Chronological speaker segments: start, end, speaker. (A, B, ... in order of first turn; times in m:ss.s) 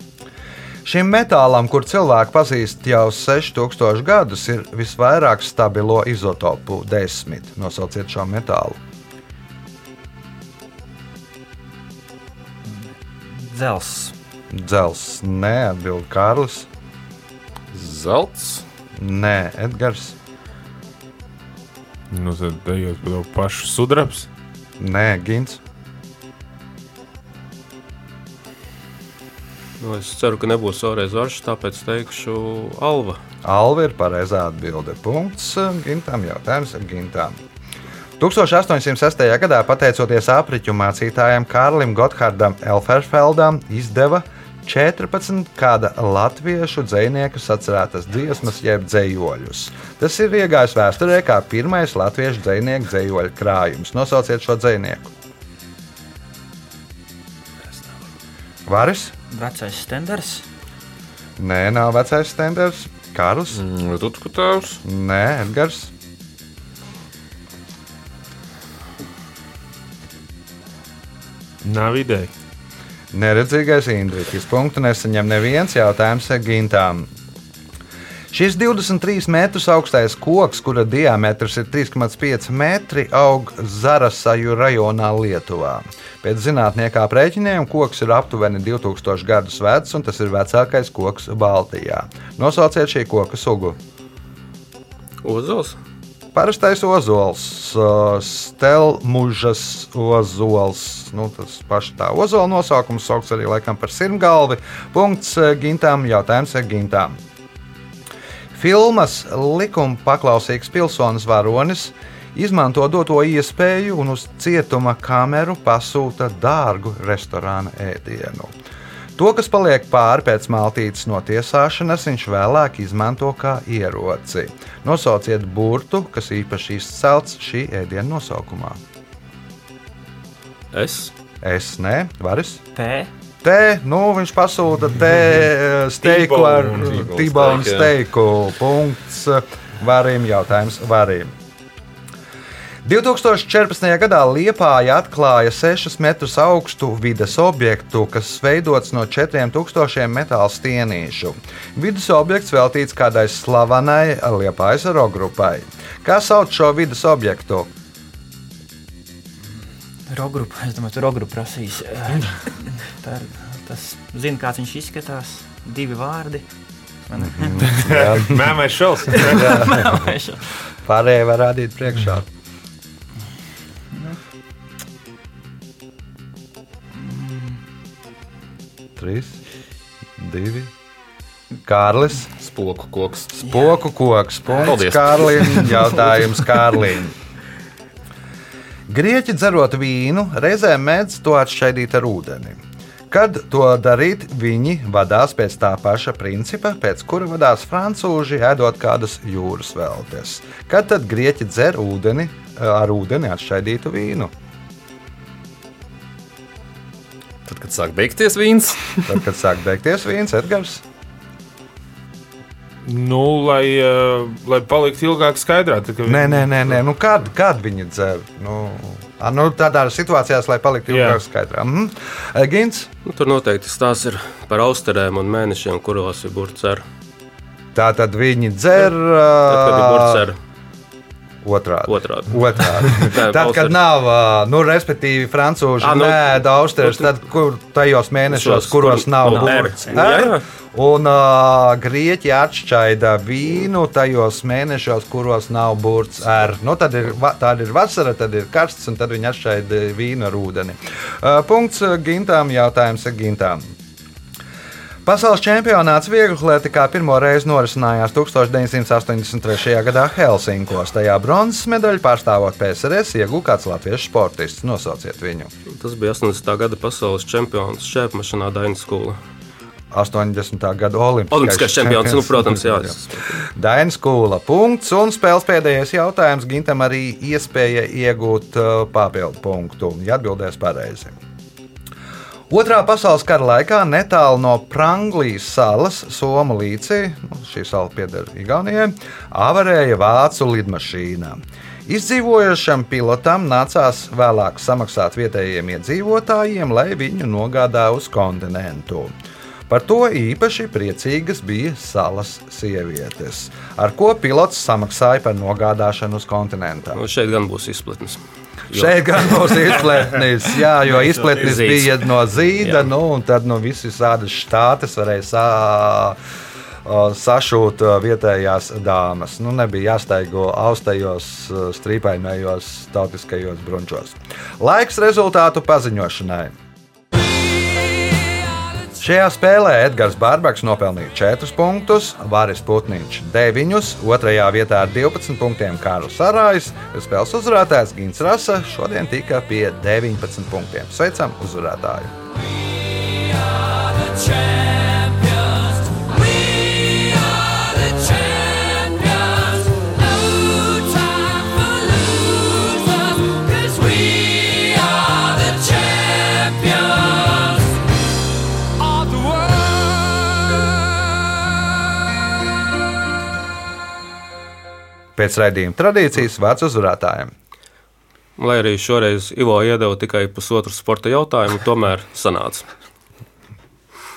0:00.8-0:08.8 A
0:12.6-0:14.1 B
0:14.5-0:16.7 A
0:17.7-0:18.6 C
0:19.0-0:20.2 A
0:22.1-0:24.3 D
0:24.8-0:25.6 A
0:29.8-0:33.2 E
0:33.4-0:37.4 A
0:38.2-0:55.1 A
0:58.7-0:59.1 A
0:59.3-1:00.4 B
1:01.4-1:03.6 A
1:03.5-1:04.8 C
1:04.8-1:05.9 A
1:11.6-1:12.3 D
1:13.1-1:17.1 A
1:18.3-1:33.8 A
1:35.2-1:35.8 E
1:36.3-1:47.2 A
1:48.5-1:58.5 A
1:59.2-2:08.8 A
2:10.7-2:11.1 E
2:11.4-2:12.6 A
2:12.7-2:13.1 B
2:13.4-2:21.3 A
2:16.0-2:17.0 D
2:16.7-2:17.9 C
2:22.8-2:37.7 A
2:40.1-2:46.4 B
2:47.0-2:47.7 B
2:47.2-2:48.6 A
2:47.6-2:49.6 D
2:49.1-2:50.4 B
2:49.3-2:50.1 A
2:50.8-2:52.3 A
2:57.0-2:57.6 B
2:59.0-2:59.4 A
3:00.2-3:00.7 A
3:01.6-3:02.3 A
3:02.4-3:03.4 C
3:03.4-3:07.1 A
3:04.6-3:05.9 C
3:08.9-3:24.3 A
3:27.4-3:29.2 C
3:29.1-3:30.8 A
3:32.8-3:36.7 D
3:36.0-3:42.9 A
3:40.9-3:41.2 D
3:43.0-3:46.8 E
3:47.7-3:50.2 A
3:49.5-3:50.4 E
3:51.4-4:13.7 A
3:51.9-3:53.8 E
3:55.8-3:56.3 E
3:56.8-3:57.1 E
3:58.3-4:00.4 E
4:15.0-4:25.5 A
4:25.7-4:29.2 E
4:29.9-4:41.2 A
4:31.3-4:33.4 E
4:42.5-4:59.1 A
4:59.7-5:07.0 A
5:06.9-5:09.9 E
5:08.7-5:16.2 A
5:11.0-5:11.9 E
5:12.6-5:12.8 E
5:16.8-5:26.5 A
5:29.0-5:42.1 A
6:05.2-6:07.3 A
6:08.4-6:12.7 E